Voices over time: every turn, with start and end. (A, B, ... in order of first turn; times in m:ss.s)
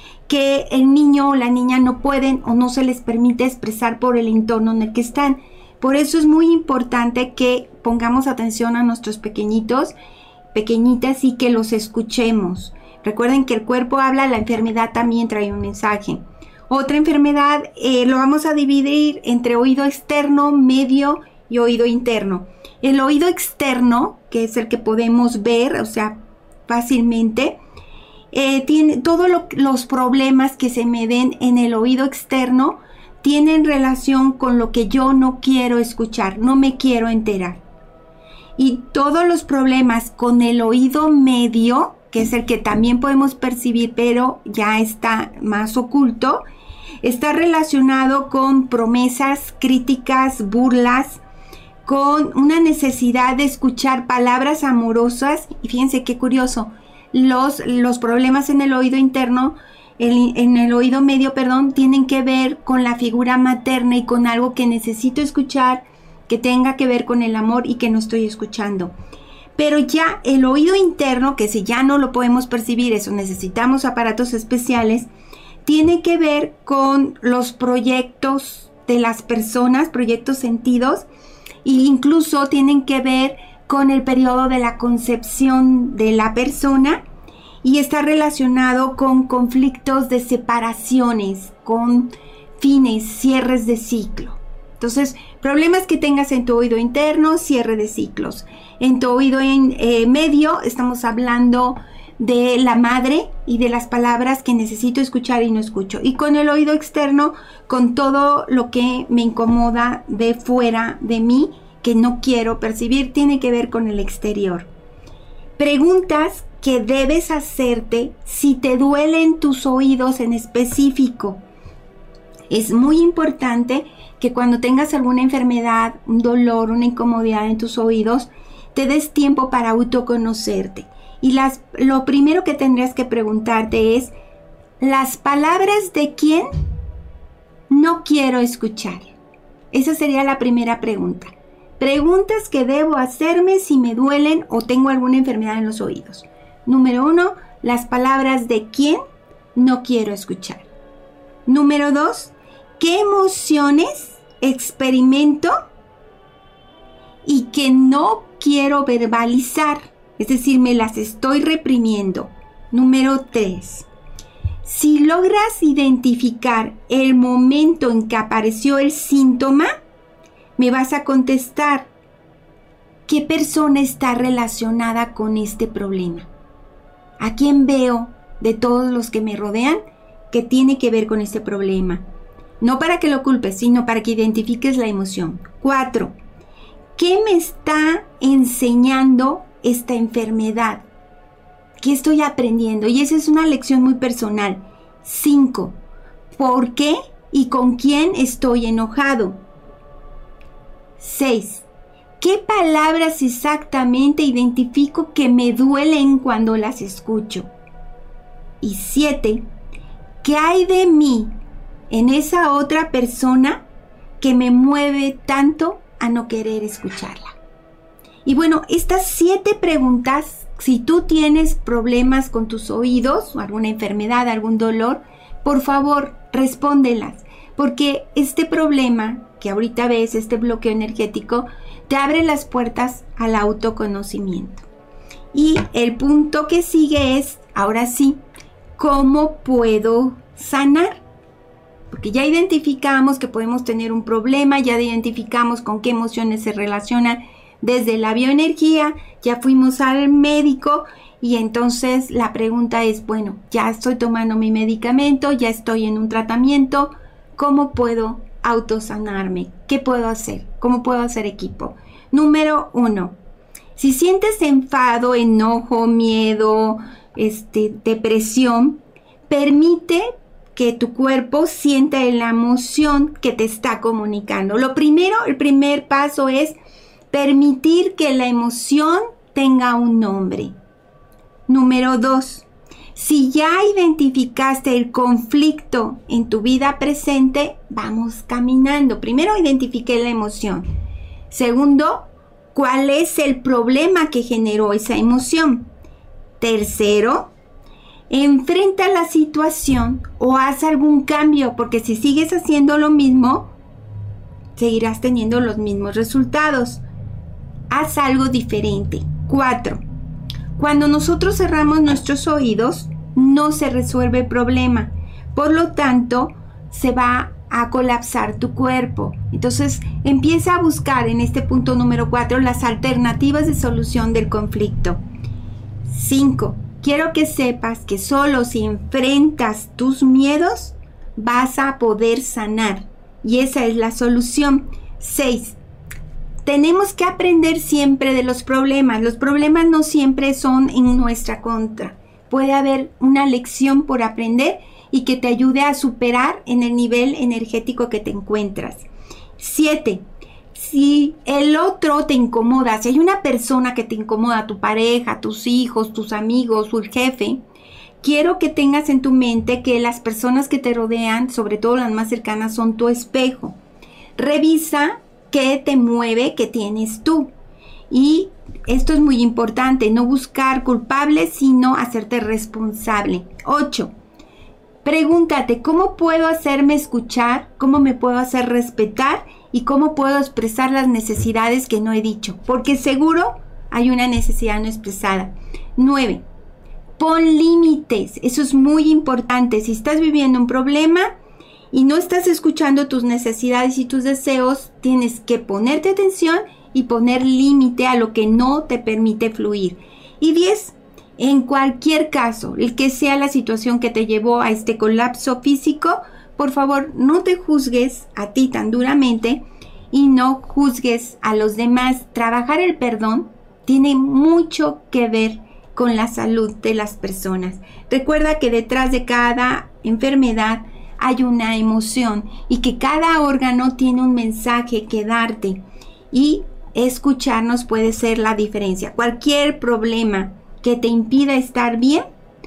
0:00.3-0:09.9 A
0:10.5-0:27.6 A
0:28.3-0:37.6 A
0:38.6-0:46.4 A
0:47.0-0:51.2 A
0:51.9-1:08.9 A
1:09.6-1:15.1 A
1:15.6-1:21.1 A
1:21.6-1:27.0 A
1:27.6-1:54.7 A
1:55.6-2:01.4 A
2:02.5-2:14.1 A
2:14.8-2:16.5 A
2:17.7-2:19.2 A
2:19.7-2:29.0 A
2:29.6-2:30.7 A
2:31.5-2:35.5 A
2:37.2-2:43.9 A
2:44.6-2:49.7 A
2:50.6-2:51.9 A
2:53.1-2:56.3 A
2:57.2-3:02.0 A
3:02.6-3:06.1 A
3:07.0-3:10.8 A
3:11.8-3:15.8 A
3:16.4-3:19.4 A
3:21.0-3:21.7 A
3:22.2-3:27.5 A
3:28.6-3:29.4 A
3:30.2-3:31.3 A
3:31.9-3:33.6 A
3:34.2-3:37.4 A
3:38.2-3:54.7 A
3:55.3-3:58.2 A
3:58.8-4:01.0 A
4:01.9-4:23.2 A
4:23.8-4:36.6 A
4:37.1-4:40.5 A
4:41.5-4:50.6 A
4:51.3-4:55.7 A
4:56.4-4:57.3 A
4:58.1-5:03.5 A
5:04.6-5:06.8 A
5:07.7-5:09.8 A
5:10.6-5:25.0 A
5:25.9-5:35.6 A
5:36.4-5:48.9 A
5:49.4-5:50.0 A
5:50.5-5:57.4 A
5:58.0-6:03.6 A
6:04.2-6:07.3 A
6:07.9-6:13.9 A
6:14.8-6:26.2 A
6:27.0-6:31.1 A
6:31.7-7:12.0 A